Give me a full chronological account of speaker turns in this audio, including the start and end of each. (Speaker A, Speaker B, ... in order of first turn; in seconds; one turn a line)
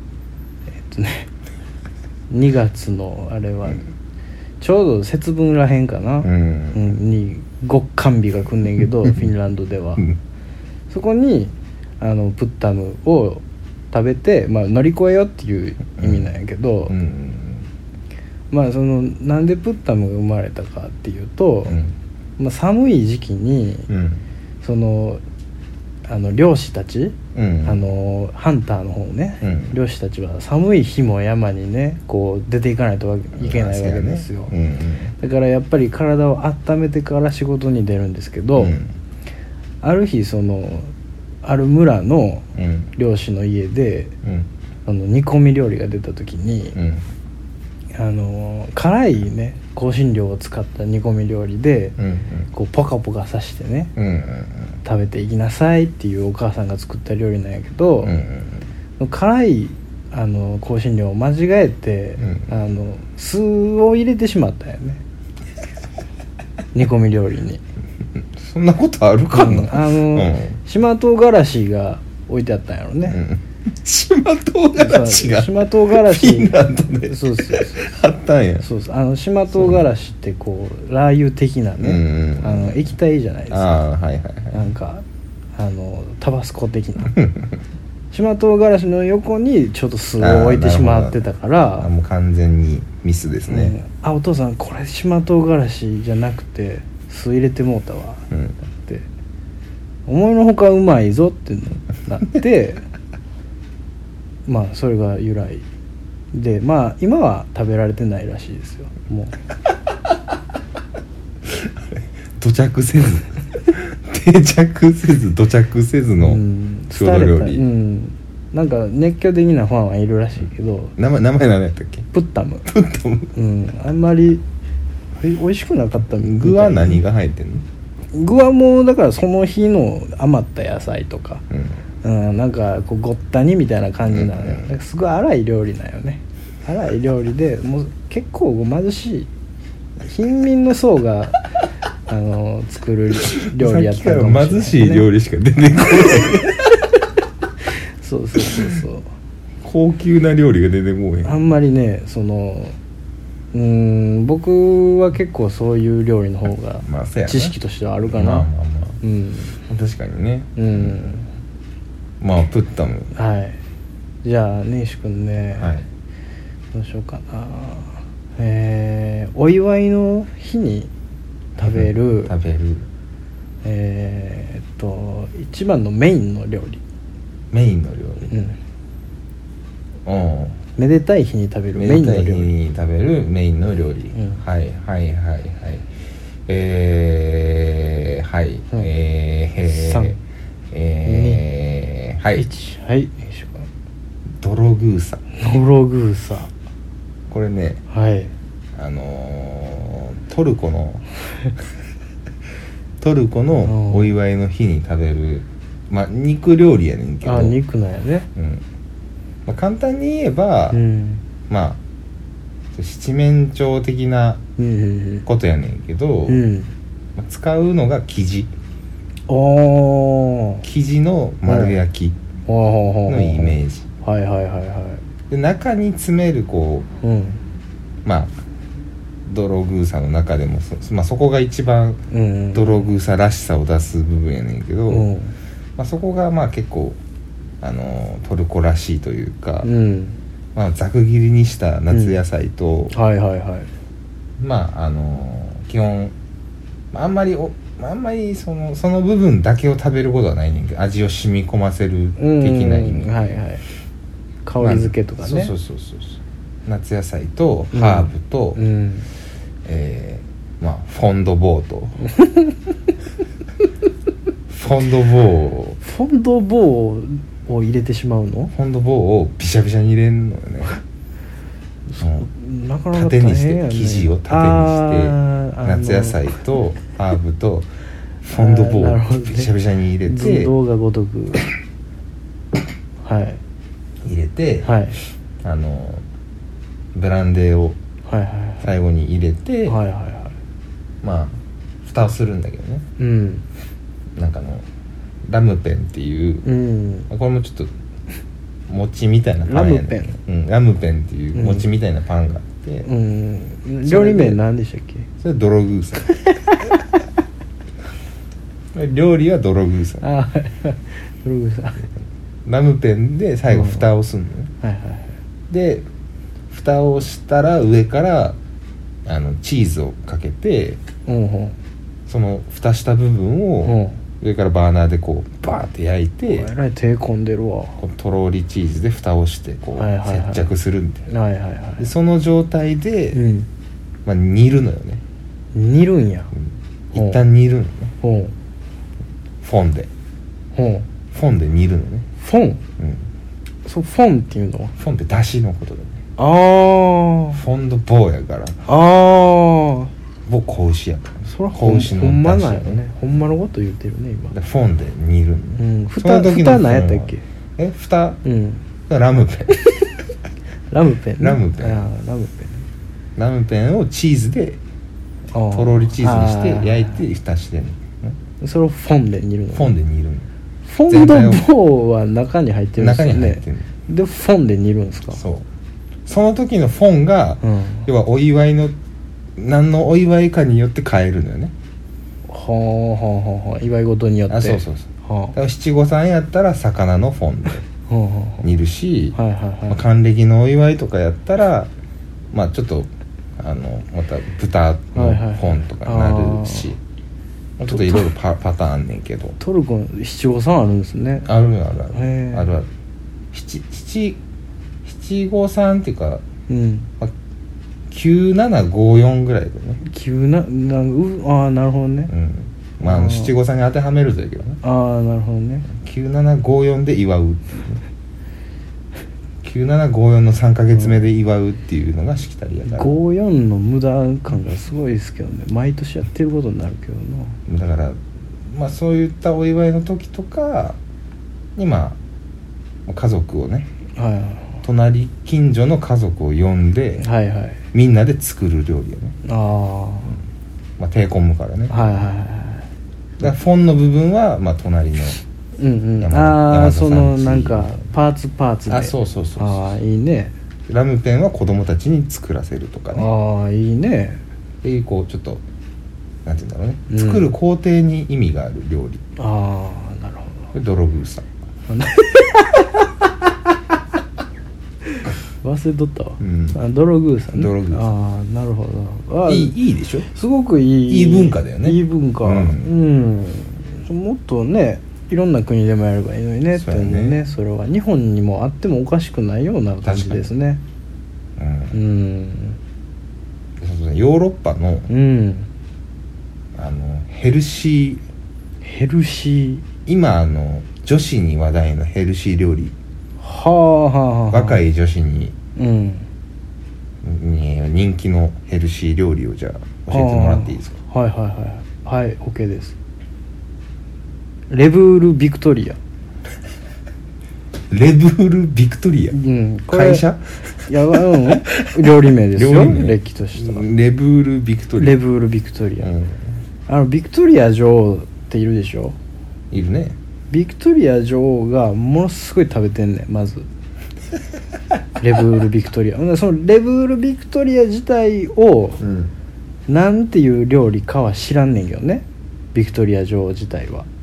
Speaker A: 0.8-1.3
Speaker A: 2.3-3.8
Speaker A: 4.6-10.1
Speaker B: 6.2-6.8
Speaker A: 10.9-16.9
Speaker B: 16.0-16.3
Speaker B: 16.9-17.7
Speaker A: 18.5-21.8
Speaker B: 21.6-21.9
Speaker A: 22.4-23.9
Speaker B: 23.9-24.2
Speaker A: 24.6-25.2
Speaker A: 26.1-34.5
Speaker B: 27.3-27.8
Speaker B: 29.4-29.8
Speaker B: 33.4-35.1
Speaker A: 35.2-38.8
Speaker B: 38.5-38.9
Speaker A: 39.8-40.9
Speaker A: 41.4-44.1
Speaker B: 42.6-42.9
Speaker B: 44.2-44.5
Speaker A: 44.9-46.8
Speaker B: 46.7-47.0
Speaker A: 47.9-52.0
Speaker B: 52.0-52.5
Speaker A: 52.5-53.9
Speaker B: 54.0-54.8
Speaker A: 54.8-58.2
Speaker B: 58.0-58.6
Speaker A: 59.0-65.0
Speaker B: 62.2-62.5
Speaker A: 66.7-67.6
Speaker B: 68.2-70.6
Speaker A: 69.3-73.2
Speaker B: 73.1-78.7
Speaker A: 74.7-77.9
Speaker A: 78.6-83.7
Speaker B: 81.8-82.9
Speaker B: 83.5-84.6
Speaker A: 84.5-85.0
Speaker A: 85.6-87.2
Speaker B: 87.0-87.5
Speaker A: 88.1-91.9
Speaker B: 90.2-91.2
Speaker B: 91.8-93.8
Speaker A: 93.5-99.0
Speaker A: 100.1-102.8
Speaker A: 104.5-105.6
Speaker A: 106.3-109.3
Speaker B: 111.4-117.6
Speaker A: 116.2-120.9
Speaker B: 121.0-122.1
Speaker A: 122.1-122.7
Speaker B: 122.7-123.3
Speaker A: 123.3-124.4
Speaker A: 125.2-127.0
Speaker B: 126.2-127.6
Speaker A: 128.1-131.4
Speaker A: 132.0-139.3
Speaker B: 134.1-134.7
Speaker A: 140.0-141.4
Speaker A: 142.1-145.1
Speaker B: 143.3-146.8
Speaker A: 148.0-149.1
Speaker B: 149.6-151.3
Speaker A: 151.2-152.8
Speaker A: 153.5-158.5
Speaker B: 156.8-159.0
Speaker A: 159.0-159.6
Speaker B: 159.7-161.0
Speaker A: 160.6-161.3
Speaker B: 162.2-163.1
Speaker A: 163.1-163.6
Speaker A: 164.2-165.8
Speaker B: 165.5-165.8
Speaker A: 166.7-170.9
Speaker B: 171.6-172.8
Speaker A: 171.6-172.3
Speaker A: 173.6-176.8
Speaker B: 177.5-178.3
Speaker A: 178.3-178.6
Speaker B: 180.0-180.6
Speaker A: 180.8-182.5
Speaker B: 181.8-185.8
Speaker A: 184.1-184.4
Speaker B: 186.5-190.2
Speaker A: 189.7-190.2
Speaker B: 190.7-192.5
Speaker A: 191.0-191.4
Speaker A: 192.4-193.7
Speaker B: 194.4-195.2
Speaker A: 195.3-196.5
Speaker B: 197.3-197.8
Speaker A: 197.9-198.3
Speaker B: 198.8-201.0
Speaker B: 203.0-207.6
Speaker A: 203.7-204.1
Speaker A: 207.2-208.3
Speaker B: 208.3-208.6
Speaker B: 209.4-210.8
Speaker A: 210.7-211.2
Speaker B: 211.5-211.8
Speaker B: 212.7-214.4
Speaker A: 214.6-215.2
Speaker B: 215.2-216.4
Speaker A: 216.3-216.7
Speaker B: 217.1-218.5
Speaker A: 219.3-220.6
Speaker B: 220.6-222.2
Speaker A: 221.4-221.8
Speaker A: 222.5-225.0
Speaker B: 223.1-223.9
Speaker B: 225.3-226.9
Speaker A: 227.0-227.4
Speaker B: 228.0-228.3
Speaker B: 229.2-232.0
Speaker A: 232.1-232.9
Speaker B: 232.5-235.1
Speaker A: 234.9-235.3
Speaker B: 235.8-237.0
Speaker B: 237.6-239.7
Speaker A: 239.6-240.2
Speaker B: 240.5-242.9
Speaker A: 241.9-242.2
Speaker A: 242.9-243.7
Speaker B: 244.4-246.1
Speaker B: 246.9-253.1
Speaker A: 252.2-253.6
Speaker A: 254.4-255.5
Speaker B: 254.6-258.6
Speaker A: 257.7-259.1
Speaker B: 259.6-262.0
Speaker A: 262.0-262.6
Speaker B: 264.5-265.8
Speaker A: 265.8-268.5
Speaker B: 268.5-270.8
Speaker A: 271.9-276.3
Speaker B: 272.0-272.3
Speaker B: 272.9-277.7
Speaker B: 278.2-280.5
Speaker A: 278.3-279.5
Speaker A: 280.0-281.5
Speaker A: 283.0-283.4
Speaker B: 284.0-284.7
Speaker A: 284.6-285.0
Speaker B: 285.4-286.0
Speaker B: 286.9-287.8
Speaker A: 288.1-288.6
Speaker B: 288.6-289.8
Speaker A: 289.6-290.3
Speaker B: 291.0-292.9
Speaker A: 293.0-293.4
Speaker B: 294.1-294.6
Speaker B: 295.3-296.4
Speaker A: 296.4-297.1
Speaker B: 297.1-297.7
Speaker B: 298.7-302.9
Speaker A: 299.4-300.1
Speaker A: 301.3-301.7
Speaker A: 302.8-305.1
Speaker B: 303.8-304.4
Speaker B: 305.2-306.4
Speaker B: 308.7-310.0
Speaker A: 310.0-311.9
Speaker B: 312.4-314.5
Speaker A: 313.5-313.8
Speaker A: 314.6-315.2
Speaker B: 315.5-315.9
Speaker B: 316.5-318.4
Speaker B: 319.1-320.8
Speaker A: 321.1-321.6
Speaker B: 322.1-326.5
Speaker A: 323.6-324.0
Speaker A: 326.3-327.8
Speaker B: 327.8-331.1
Speaker A: 329.8-330.5
Speaker A: 331.1-331.9
Speaker B: 331.8-333.2
Speaker A: 333.1-333.5
Speaker B: 334.1-335.0
Speaker A: 335.5-336.3
Speaker B: 336.3-337.9
Speaker A: 336.9-337.2
Speaker A: 338.0-338.3
Speaker B: 339.4-339.9
Speaker A: 340.5-340.9
Speaker B: 341.1-342.1
Speaker A: 342.2-342.6
Speaker B: 342.8-343.1
Speaker A: 343.6-344.7
Speaker B: 344.8-346.0
Speaker A: 346.2-347.4
Speaker B: 347.3-348.6
Speaker A: 348.6-349.9
Speaker B: 350.2-352.8
Speaker A: 351.2-354.3
Speaker B: 354.3-358.2
Speaker A: 355.6-357.2
Speaker A: 358.2-358.6
Speaker B: 358.9-359.6
Speaker A: 359.5-359.9
Speaker A: 360.7-362.6
Speaker B: 361.2-361.9
Speaker B: 363.1-364.6
Speaker A: 365.3-367.0
Speaker B: 365.5-368.2
Speaker A: 368.4-369.7
Speaker B: 369.5-370.3
Speaker A: 370.6-375.2
Speaker B: 370.9-371.4
Speaker B: 372.8-373.7
Speaker B: 375.1-375.5
Speaker B: 376.1-378.7
Speaker A: 377.4-377.9
Speaker B: 379.4-381.5
Speaker A: 382.3-385.4
Speaker B: 384.3-387.6
Speaker A: 387.9-388.5
Speaker B: 388.4-391.7
Speaker A: 389.1-389.8
Speaker B: 392.3-396.8
Speaker A: 394.9-396.7
Speaker B: 397.6-399.4
Speaker A: 397.7-398.1
Speaker A: 399.4-401.3
Speaker B: 401.2-402.7
Speaker A: 401.9-402.5
Speaker B: 403.3-404.2
Speaker B: 404.8-406.2
Speaker A: 406.5-406.9
Speaker B: 407.9-409.8
Speaker A: 409.8-412.1
Speaker B: 412.1-414.6
Speaker A: 412.8-413.3
Speaker A: 414.6-415.6
Speaker B: 415.7-417.8
Speaker B: 419.4-422.9
Speaker A: 422.6-427.4
Speaker B: 427.5-430.8
Speaker B: 431.6-432.0
Speaker B: 432.9-433.7
Speaker A: 433.9-434.6
Speaker B: 434.6-437.0
Speaker A: 437.0-437.6
Speaker B: 437.7-439.2
Speaker A: 439.2-440.1
Speaker B: 440.8-441.9
Speaker A: 441.7-442.7
Speaker B: 443.2-445.2
Speaker A: 445.6-450.3
Speaker B: 446.0-447.9
Speaker B: 448.7-449.7
Speaker B: 450.7-453.1
Speaker A: 452.9-454.2
Speaker B: 454.6-455.4
Speaker B: 456.2-459.0
Speaker A: 456.9-457.3
Speaker A: 459.2-460.5
Speaker B: 460.5-461.3
Speaker A: 461.7-463.1
Speaker A: 464.9-480.6
Speaker B: 466.2-466.6
Speaker B: 467.3-467.9
Speaker B: 469.2-470.1
Speaker B: 470.9-472.7
Speaker B: 476.5-477.2
Speaker B: 479.8-480.2
Speaker B: 481.4-481.8
Speaker A: 481.7-482.6
Speaker B: 483.6-484.9
Speaker A: 484.9-485.5
Speaker B: 486.5-488.0
Speaker A: 488.6-489.6
Speaker B: 489.9-492.7
Speaker A: 493.2-494.6
Speaker B: 494.3-495.3
Speaker A: 495.6-496.1
Speaker B: 497.0-500.7
Speaker A: 499.9-502.8
Speaker A: 504.5-505.8
Speaker B: 507.7-509.2
Speaker A: 509.1-510.1
Speaker B: 509.7-511.7
Speaker A: 510.6-513.7
Speaker B: 512.3-515.0
Speaker A: 514.8-515.9
Speaker B: 515.8-516.2
Speaker A: 516.7-519.0
Speaker B: 519.5-520.0
Speaker A: 520.3-523.5
Speaker A: 525.0-528.8
Speaker B: 528.8-529.1
Speaker A: 529.7-533.9